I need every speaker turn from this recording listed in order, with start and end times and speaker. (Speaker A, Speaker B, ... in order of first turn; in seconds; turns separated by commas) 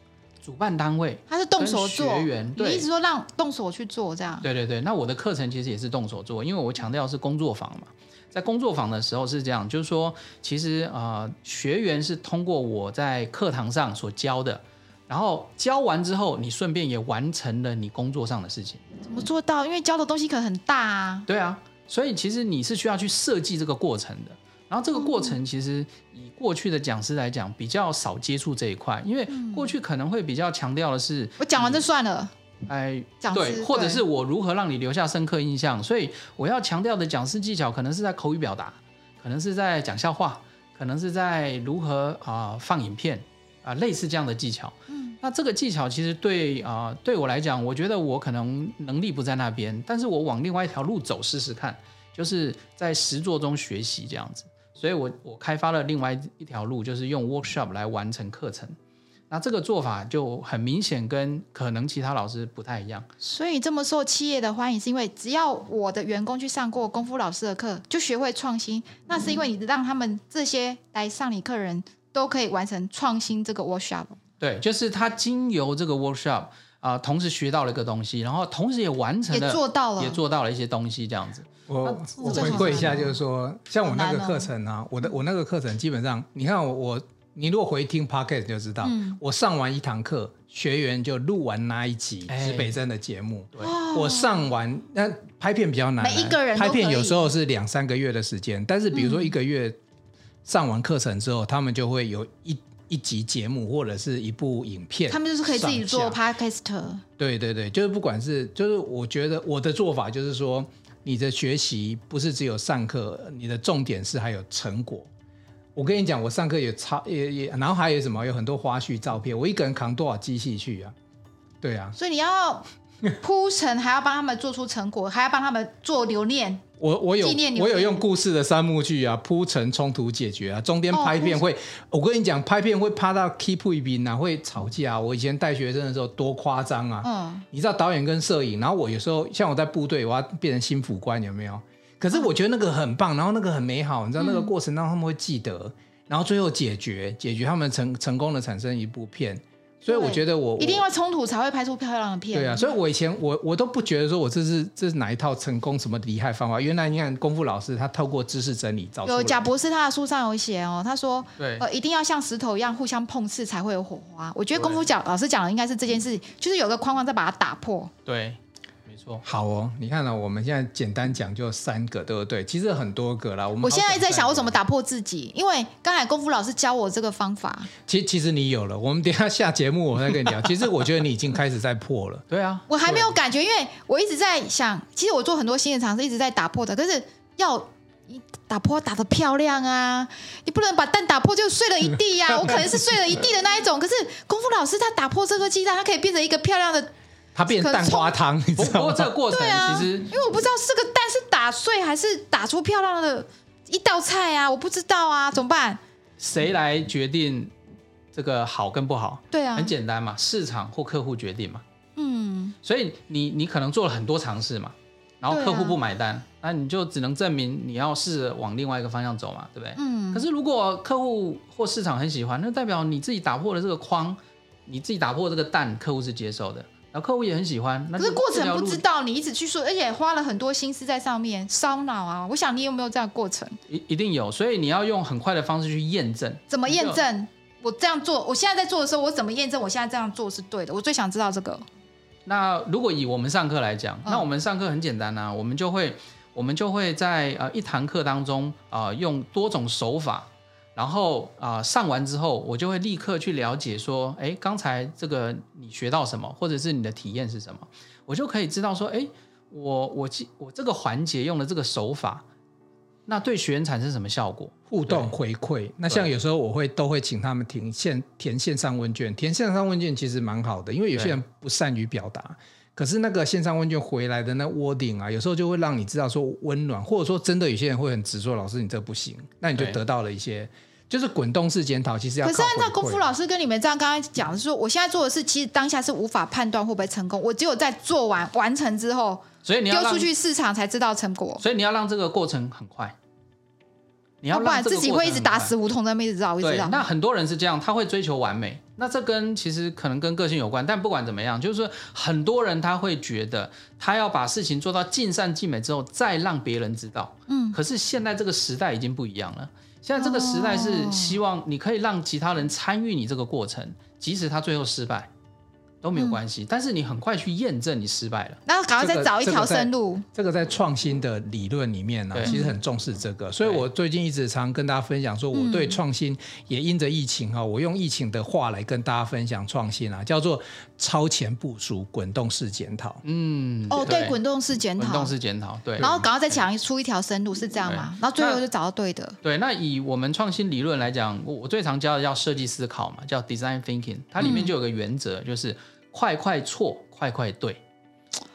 Speaker A: 0.4-2.9, Speaker B: 1.3-4.5, Speaker A: 4.4-18.8, Speaker B: 19.0-21.3, Speaker A: 21.3-31.8, Speaker B: 24.9-25.3, Speaker B: 29.3-29.7, Speaker B: 31.4-32.3, Speaker A: 32.6-58.8, Speaker B: 33.2-34.0, Speaker B: 44.9-45.2, Speaker A: 59.3-63.1, Speaker B: 63.2-74.2, Speaker A: 74.4-83.0, Speaker B: 79.3-80.2, Speaker C: 81.7-99.8, Speaker B: 82.2-83.1, Speaker B: 83.8-84.5, Speaker B: 88.8-89.2, Speaker A: 92.3-92.7, Speaker B: 93.6-94.5, Speaker B: 96.0-97.2, Speaker B: 98.9-99.3, Speaker C: 100.4-106.2, Speaker B: 105.1-107.0, Speaker C: 107.2-115.1, Speaker C: 115.7-120.9, Speaker C: 121.6-122.0, Speaker B: 122.0-122.7, Speaker B: 123.2-126.6, Speaker C: 126.8-150.8, Speaker B: 127.2-128.0, Speaker B: 130.9-131.4, Speaker B: 137.0-137.4, Speaker B: 144.2-144.5, Speaker B: 149.9-152.8, Speaker C: 152.3-159.4, Speaker B: 159.0-167.9, Speaker A: 161.4-161.7, Speaker A: 164.5-164.8, Speaker A: 168.1-169.2, Speaker C: 169.2-174.3, Speaker B: 173.6-177.7, Speaker A: 173.9-174.4, Speaker C: 177.9-182.2, Speaker A: 182.3-183.1, Speaker B: 182.7-196.9, Speaker C: 197.3-199.1, Speaker B: 197.5-198.1, Speaker A: 198.6-200.1, Speaker B: 199.3-205.8, Speaker A: 206.2-207.5, Speaker A: 208.1-211.6, Speaker B: 209.3-209.7, Speaker B: 212.0-212.6, Speaker A: 212.6-228.8, Speaker B: 215.3-215.8, Speaker B: 219.8-220.2, Speaker B: 228.0-233.6, Speaker A: 233.7-237.0, Speaker B: 236.5-241.6, Speaker A: 242.2-262.2, Speaker A: 263.1-265.1, Speaker C: 264.7-283.1, Speaker B: 282.2-291.4, Speaker A: 289.4-290.1, Speaker A: 291.4-292.9, Speaker A: 294.2-295.5, Speaker B: 294.3-296.8, Speaker A: 296.4-315.1, Speaker B: 307.3-307.6, Speaker B: 310.0-311.2, Speaker A: 315.8-318.4, Speaker B: 318.4-320.0, Speaker C: 318.8-333.0, Speaker A: 322.1-322.4, Speaker B: 322.2-322.5, Speaker A: 323.4-323.6, Speaker B: 325.3-325.8, Speaker A: 333.0-334.2, Speaker B: 333.7-335.1, Speaker A: 334.8-336.4, Speaker B: 335.8-339.2, Speaker A: 337.6-338.4, Speaker A: 339.2-347.6, Speaker B: 344.2-344.5